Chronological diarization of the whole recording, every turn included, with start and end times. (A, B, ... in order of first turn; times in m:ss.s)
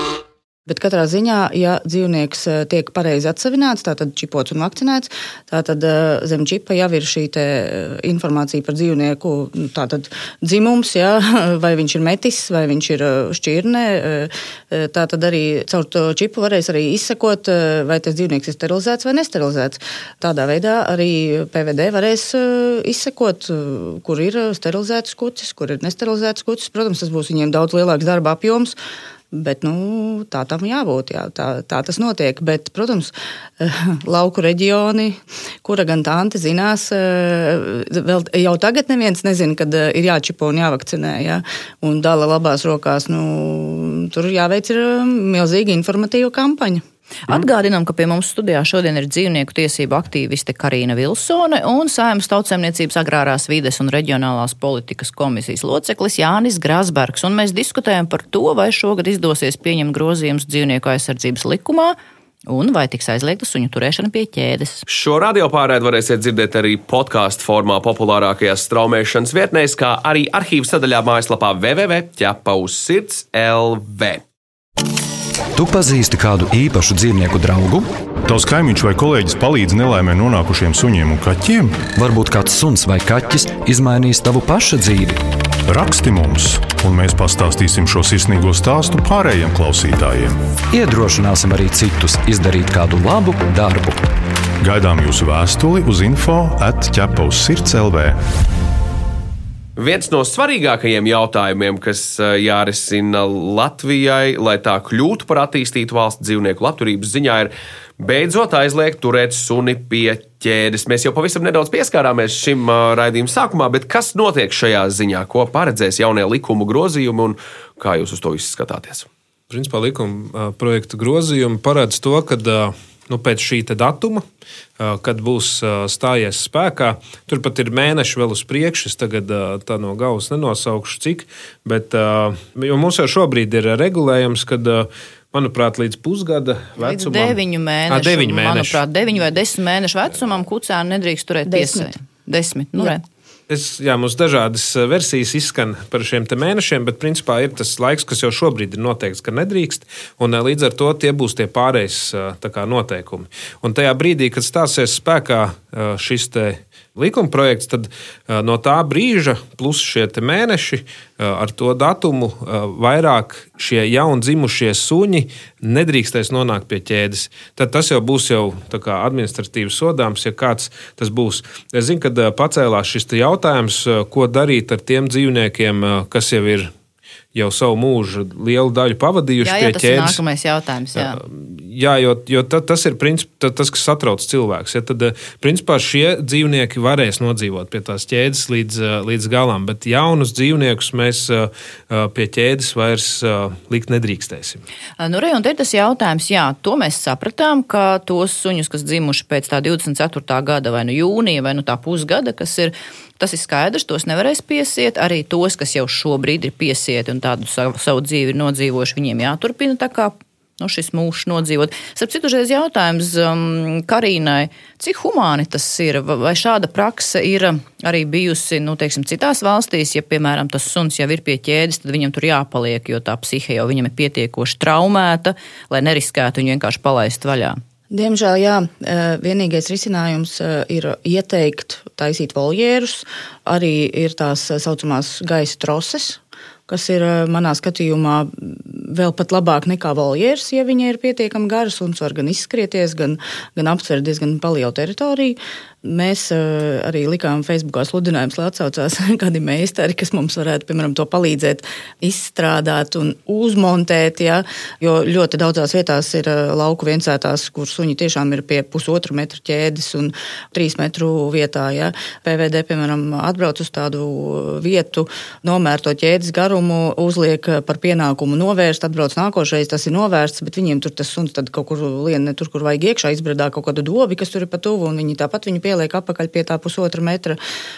0:00.7-0:28.8 A
0:29.3-0:46.8 A
0:47.3-1:02.0 B
1:02.5-1:04.8 B
1:04.9-1:14.2 C
1:15.5-1:17.9 D
1:18.2-1:21.9 E
1:22.0-1:25.2 D
1:25.7-1:30.4 E
1:30.7-1:34.1 D
1:34.6-1:38.2 E
1:39.8-1:59.1 C
1:59.5-2:04.2 F
2:04.8-2:18.8 F
2:16.8-2:23.0 B
2:21.5-2:21.9 A
2:23.5-2:56.7 F
2:57.4-3:00.2 F
2:59.4-3:01.2 B
3:01.0-3:14.6 F
3:15.0-3:47.6 B
3:47.9-4:37.4 A